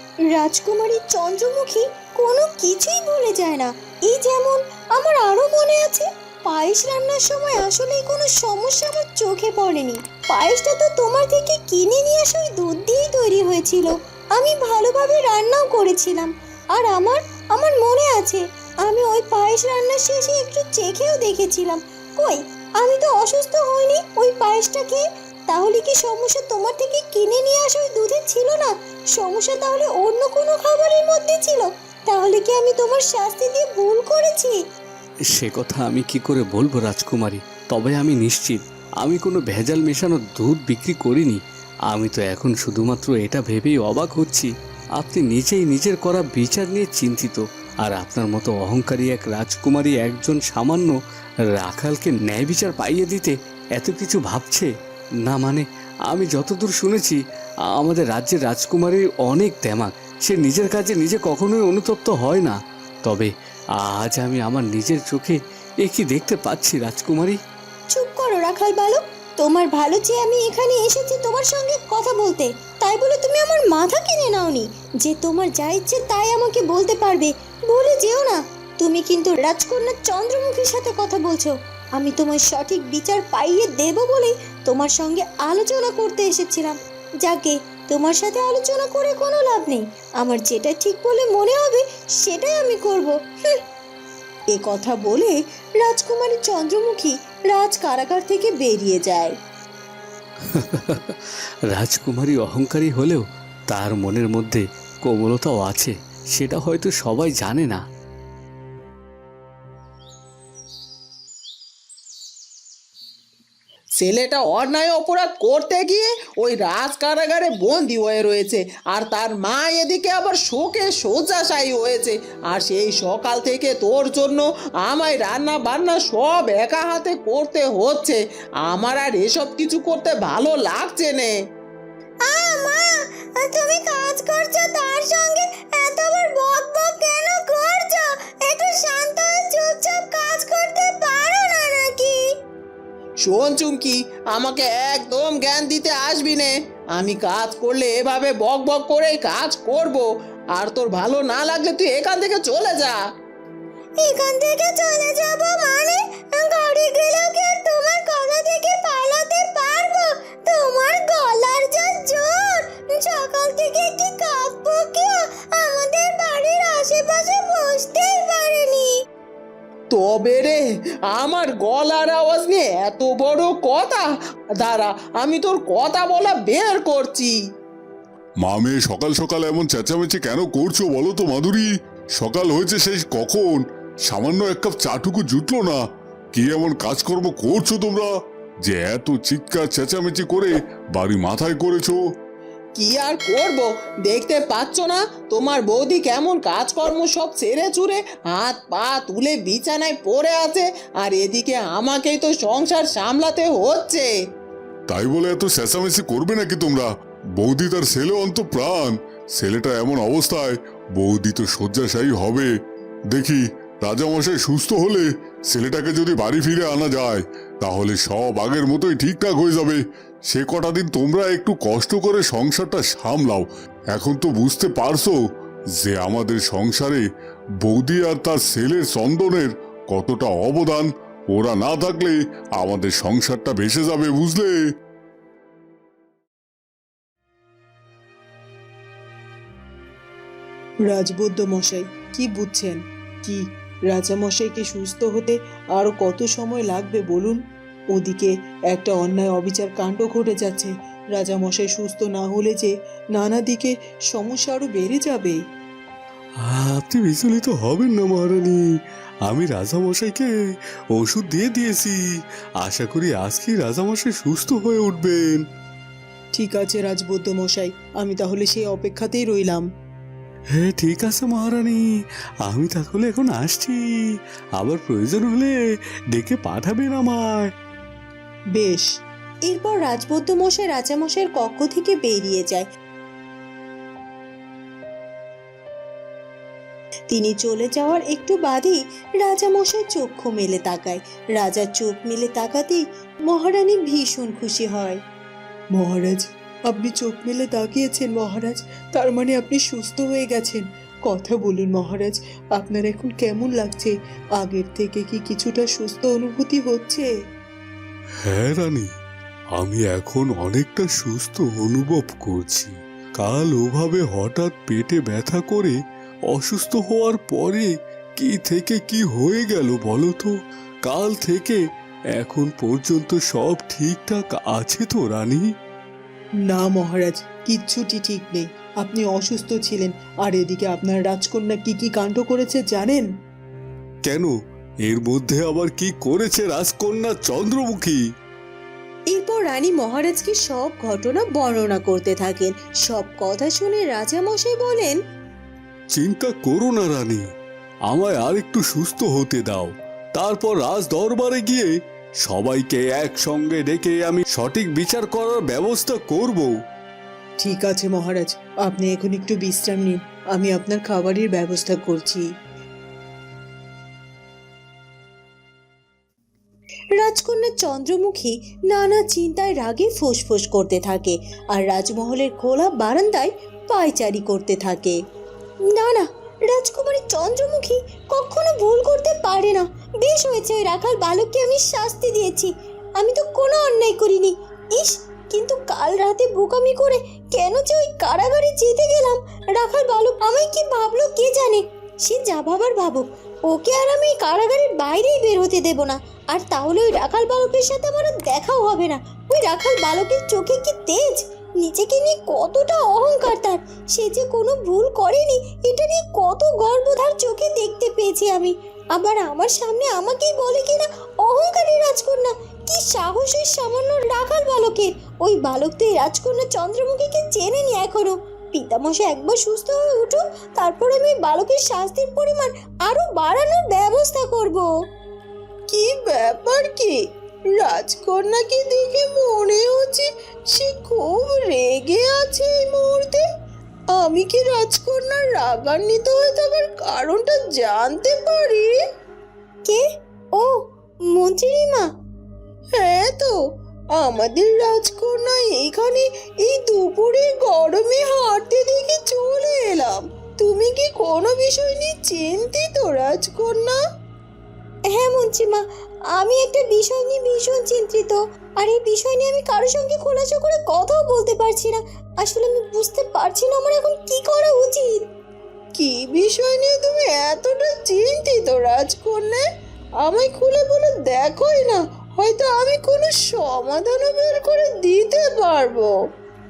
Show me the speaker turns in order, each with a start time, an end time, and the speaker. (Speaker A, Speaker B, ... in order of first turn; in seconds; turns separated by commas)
Speaker A: 0.3-34.6, Speaker B: 35.3-51.0, Speaker B: 51.5-54.7, Speaker B: 55.2-57.2, Speaker B: 57.7-67.4, Speaker A: 67.9-93.6, Speaker A: 94.5-99.3, Speaker B: 100.5-101.2, Speaker B: 101.7-107.8, Speaker C: 114.0-131.4, Speaker A: 132.3-142.2, Speaker C: 143.2-153.0, Speaker A: 154.0-168.9, Speaker C: 169.9-177.4, Speaker D: 178.4-185.8, Speaker D: 186.3-188.1, Speaker D: 188.6-192.0, Speaker C: 192.8-204.1, Speaker D: 204.9-212.5, Speaker D: 213.1-225.2, Speaker D: 225.8-227.0, Speaker D: 227.6-234.5, Speaker E: 240.9-247.4, Speaker E: 247.9-255.4, Speaker B: 256.5-258.6, Speaker B: 259.3-260.3, Speaker B: 260.9-262.0, Speaker B: 262.6-265.4, Speaker E: 266.4-269.6, Speaker B: 270.6-271.9, Speaker B: 272.5-273.9, Speaker B: 274.6-275.5, Speaker B: 276.1-277.5, Speaker E: 278.6-278.9, Speaker A: 279.5-282.7, Speaker A: 287.1-295.0, Speaker E: 295.7-307.1, Speaker B: 308.3-308.9, Speaker B: 309.6-315.8, Speaker B: 316.3-320.3, Speaker B: 320.9-321.6, Speaker B: 322.2-325.5, Speaker E: 326.5-333.0, Speaker B: 334.0-334.3, Speaker B: 334.9-338.0, Speaker A: 339.1-345.0, Speaker B: 345.9-347.2, Speaker B: 347.9-351.7, Speaker B: 352.2-356.5, Speaker E: 357.4-362.2, Speaker A: 367.0-375.0, Speaker A: 375.7-424.7, Speaker C: 428.2-433.1, Speaker C: 434.1-436.1, Speaker C: 437.2-438.6, Speaker A: 441.1-441.9, Speaker C: 442.9-443.3, Speaker C: 444.4-446.0, Speaker C: 446.7-448.0, Speaker A: 447.9-449.9, Speaker A: 450.5-451.6, Speaker A: 452.9-453.5, Speaker A: 454.9-455.6, Speaker A: 456.1-465.0, Speaker C: 465.8-469.4, Speaker C: 470.0-475.9